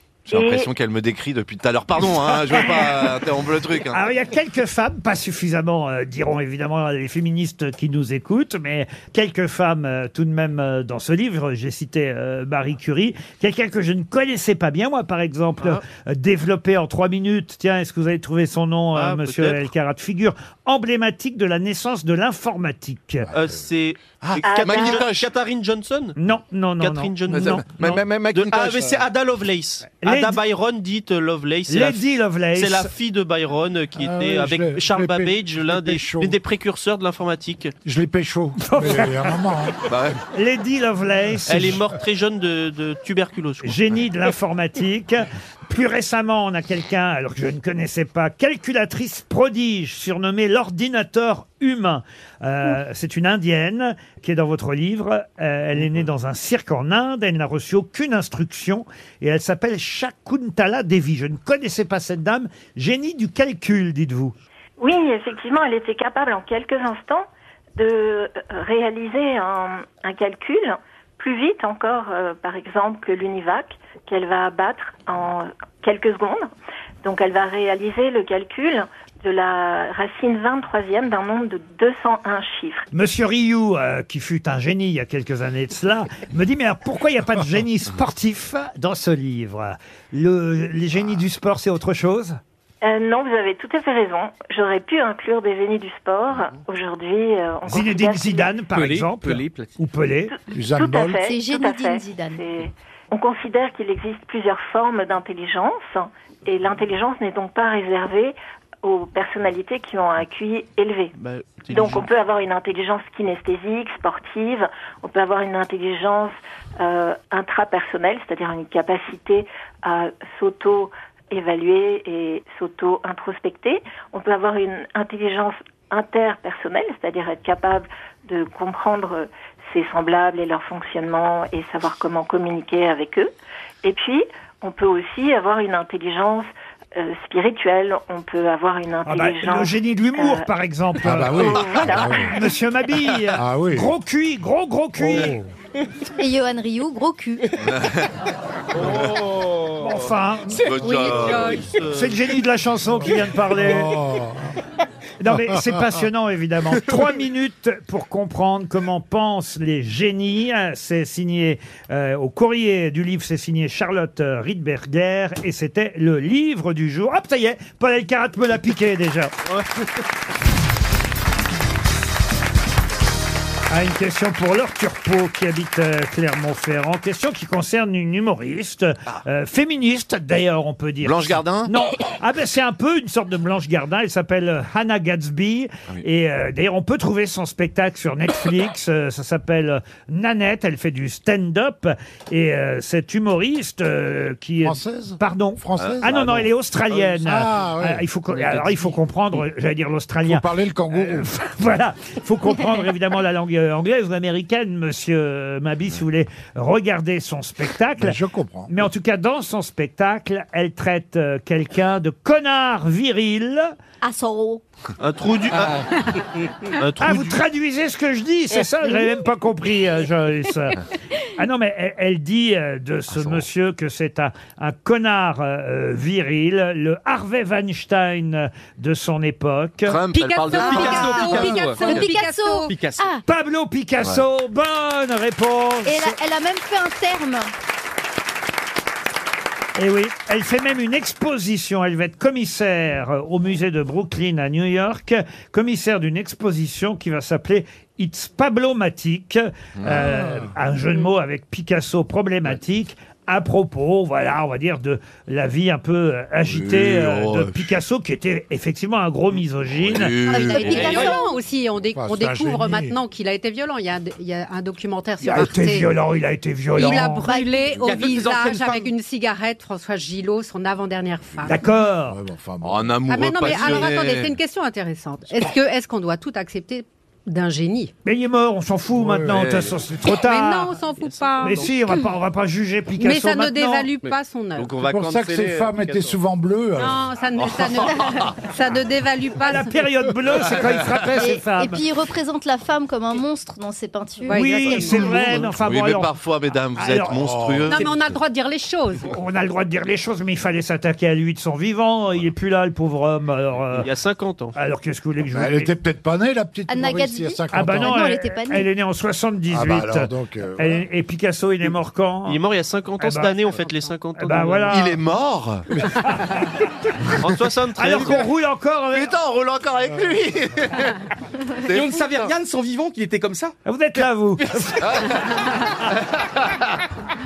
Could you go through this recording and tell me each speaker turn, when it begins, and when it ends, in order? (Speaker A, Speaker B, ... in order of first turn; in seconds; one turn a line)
Speaker A: 0.3-0.7
Speaker B: 0.3-4.0
Speaker C: 2.5-2.9
Speaker C: 3.9-23.3
Speaker D: 18.9-19.6
Speaker E: 23.2-23.7
Speaker D: 23.3-26.2
Speaker B: 24.2-25.3
Speaker A: 24.4-25.0
Speaker C: 26.2-28.0
Speaker D: 26.8-37.7
Speaker B: 27.3-29.0
Speaker C: 30.0-30.4
Speaker C: 31.7-32.9
Speaker E: 34.0-36.4
Speaker E: 37.9-39.8
Speaker C: 38.6-39.4
Speaker B: 39.9-40.2
Speaker C: 40.3-41.8
Speaker D: 41.5-43.8
Speaker C: 43.6-64.3
Speaker A: 64.8-76.5
Speaker A: 77.0-82.9
Speaker C: 82.9-92.4
Speaker A: 92.8-98.5
Speaker C: 97.7-100.3
Speaker F: 98.7-99.7
Speaker E: 100.5-101.2
Speaker A: 100.7-111.1
Speaker G: 101.2-102.4
Speaker D: 111.2-112.1
Speaker A: 111.7-133.3
Speaker A: 133.8-140.5
Speaker C: 139.1-141.7
Speaker E: 141.0-142.4
Speaker A: 141.3-142.3
Speaker C: 142.2-145.4
Speaker E: 143.3-143.9
Speaker E: 145.0-145.5
Speaker G: 146.2-147.5
Speaker B: 147.7-148.1
Speaker B: 148.8-149.1
Speaker E: 148.8-149.1
Speaker C: 149.8-150.8
Speaker F: 150.5-150.8
Speaker B: 150.7-151.6
Speaker H: 150.8-151.7
Speaker D: 150.9-152.2
Speaker C: 151.8-154.0
Speaker E: 153.0-154.6
Speaker C: 155.2-169.3
Speaker C: 173.7-208.2
Speaker B: 181.0-181.7
Speaker E: 194.6-198.9
Speaker B: 195.8-196.1
Speaker E: 200.2-201.3
Speaker E: 208.0-208.7
Speaker C: 208.7-213.8
Speaker G: 214.0-214.6
Speaker D: 215.0-215.8
Speaker F: 215.5-216.5
Speaker D: 216.8-217.4
Speaker C: 217.0-220.8
Speaker C: 221.4-230.0
Speaker B: 223.2-223.4
Speaker B: 229.9-232.1
Speaker F: 230.2-231.9
Speaker H: 230.3-232.7
Speaker G: 230.5-233.2
Speaker F: 232.7-233.2
Speaker C: 233.3-236.2
Speaker G: 235.8-237.5
Speaker C: 239.8-260.2
Speaker B: 249.8-250.1
Speaker E: 249.9-250.5
Speaker B: 256.5-257.6
Speaker B: 259.8-261.0
Speaker H: 260.2-265.9
Speaker G: 260.3-261.3
Speaker E: 261.9-263.0
Speaker C: 265.2-267.3
Speaker H: 266.7-271.6
Speaker G: 267.2-267.9
Speaker F: 267.8-268.9
Speaker C: 271.5-272.2
Speaker E: 272.1-273.9
Speaker B: 272.6-274.4
Speaker H: 273.1-277.9
Speaker C: 278.1-280.8
Speaker E: 278.9-279.8
Speaker H: 280.1-281.9
Speaker D: 281.0-281.5
Speaker C: 281.4-283.9
Speaker H: 283.0-284.7
Speaker B: 284.6-286.2
Speaker E: 284.8-287.1
Speaker H: 286.8-289.7
Speaker B: 287.4-287.7
Speaker C: 289.4-291.8
Speaker G: 291.2-294.7
Speaker H: 294.2-295.4
Speaker C: 294.3-296.1
Speaker B: 295.5-297.9
Speaker C: 296.8-297.4
Speaker E: 297.0-297.9
Speaker H: 297.7-299.1
Speaker C: 299.1-303.9
Speaker D: 303.7-304.5
Speaker C: 304.5-305.7
Speaker E: 305.3-308.1
Speaker G: 306.7-308.7
Speaker C: 307.5-312.4
Speaker E: 309.5-310.8
Speaker D: 312.3-314.8
Speaker C: 313.0-313.4
Speaker C: 314.2-315.0
Speaker B: 314.7-315.7
Speaker C: 316.0-316.3
Speaker D: 317.2-318.2
Speaker C: 317.8-319.1
Speaker B: 318.9-321.0
Speaker E: 319.9-320.2
Speaker B: 321.6-322.3
Speaker F: 321.7-323.6
Speaker C: 323.6-324.9
Speaker F: 324.5-325.3
Speaker B: 324.8-326.8